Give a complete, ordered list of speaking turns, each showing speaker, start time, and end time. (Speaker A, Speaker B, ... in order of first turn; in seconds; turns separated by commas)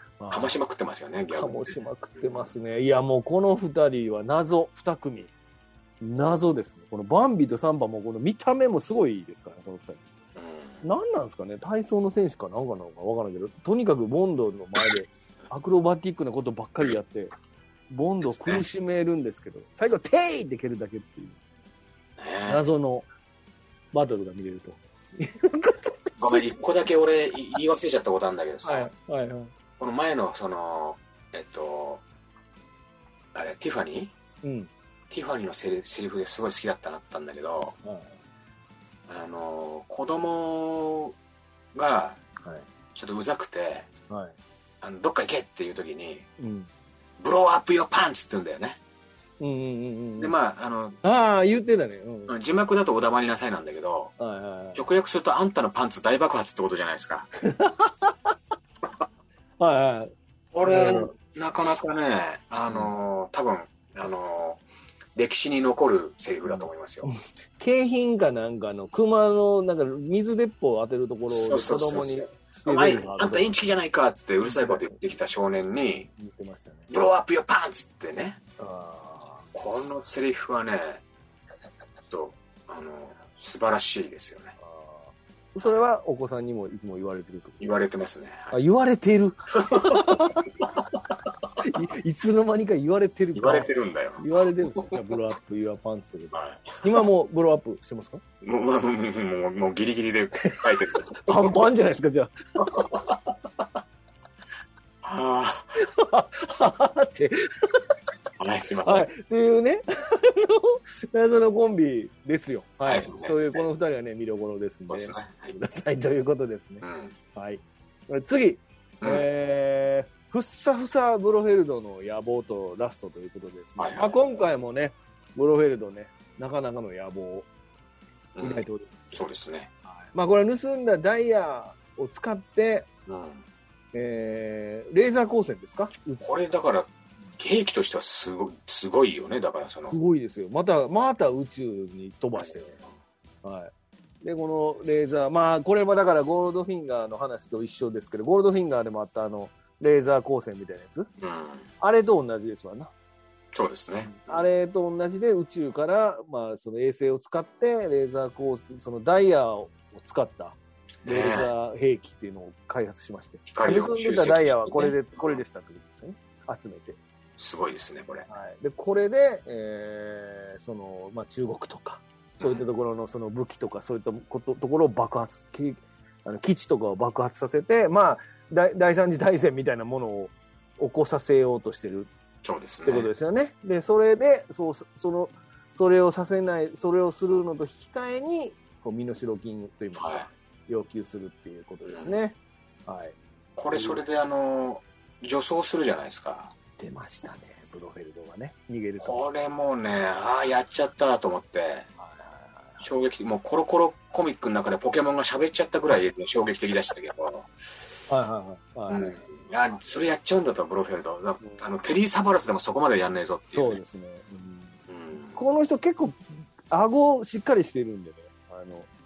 Speaker A: 0.2-0.6, Speaker B: 0.3-2.5, Speaker A: 1.3-5.3, Speaker A: 6.0-10.0, Speaker B: 10.3-10.8, Speaker A: 10.8-17.3, Speaker A: 17.9-21.4, Speaker B: 18.3-18.6, Speaker B: 22.2-22.6, Speaker A: 22.5-23.1, Speaker A: 23.9-26.5, Speaker B: 26.2-28.9, Speaker A: 28.6-29.5, Speaker B: 29.8-32.0, Speaker B: 33.3-34.1, Speaker A: 34.4-34.7, Speaker B: 35.1-37.8, Speaker A: 37.8-38.1, Speaker B: 39.1-41.1, Speaker B: 41.7-42.2, Speaker A: 42.4-42.7, Speaker B: 42.9-43.9, Speaker A: 44.1-44.3, Speaker B: 44.8-46.2, Speaker A: 46.4-46.7, Speaker B: 47.2-48.8, Speaker A: 49.4-50.3, Speaker B: 50.2-51.0, Speaker A: 51.0-52.3, Speaker B: 52.3-54.1, Speaker A: 54.2-54.8, Speaker B: 54.7-57.3, Speaker A: 57.4-58.1, Speaker A: 59.6-60.1, Speaker B: 60.5-64.6, Speaker A: 60.6-61.1, Speaker A: 62.7-62.9, Speaker B: 65.2-67.1, Speaker A: 66.5-73.5, Speaker B: 71.3-76.1, Speaker A: 74.4-75.0, Speaker A: 76.1-76.9, Speaker B: 76.9-78.4, Speaker A: 78.6-79.5, Speaker B: 79.5-81.0, Speaker B: 82.1-84.5, Speaker A: 84.6-87.7, Speaker B: 87.6-88.6, Speaker A: 88.5-90.4, Speaker B: 89.6-90.0, Speaker B: 90.6-91.2, Speaker A: 91.6-98.2, Speaker B: 93.3-94.2, Speaker B: 94.7-95.0, Speaker B: 96.3-96.8, Speaker B: 98.4-101.4, Speaker A: 100.4-103.0, Speaker B: 102.7-103.0, Speaker B: 105.0-105.7, Speaker A: 105.8-107.8, Speaker B: 108.4-109.1, Speaker A: 108.8-127.5, Speaker B: 112.8-113.6, Speaker B: 114.9-115.5, Speaker B: 116.8-117.1, Speaker B: 119.0-119.2, Speaker B: 123.8-124.2, Speaker B: 128.3-129.7, Speaker A: 128.4-129.2, Speaker A: 130.1-132.9, Speaker B: 133.1-133.4, Speaker A: 133.9-136.3, Speaker B: 136.2-139.9, Speaker A: 139.9-142.7, Speaker B: 142.3-142.9, Speaker A: 143.4-143.7, Speaker A: 144.2-151.1, Speaker B: 151.2-151.7, Speaker A: 151.8-152.9, Speaker B: 153.5-154.5, Speaker A: 154.0-167.0, Speaker B: 161.0-161.5, Speaker B: 163.5-165.4, Speaker B: 167.4-168.3, Speaker A: 168.3-182.1, Speaker B: 172.4-172.7, Speaker B: 182.4-183.1, Speaker A: 182.8-193.2, Speaker B: 189.9-190.3, Speaker B: 191.8-192.2, Speaker B: 193.6-196.5, Speaker A: 193.7-194.0, Speaker A: 196.8-199.2, Speaker B: 199.0-201.9, Speaker A: 202.0-202.8, Speaker B: 202.8-207.5, Speaker A: 208.1-209.2, Speaker B: 208.9-213.8, Speaker A: 213.5-214.8, Speaker B: 214.9-215.4, Speaker A: 215.3-218.9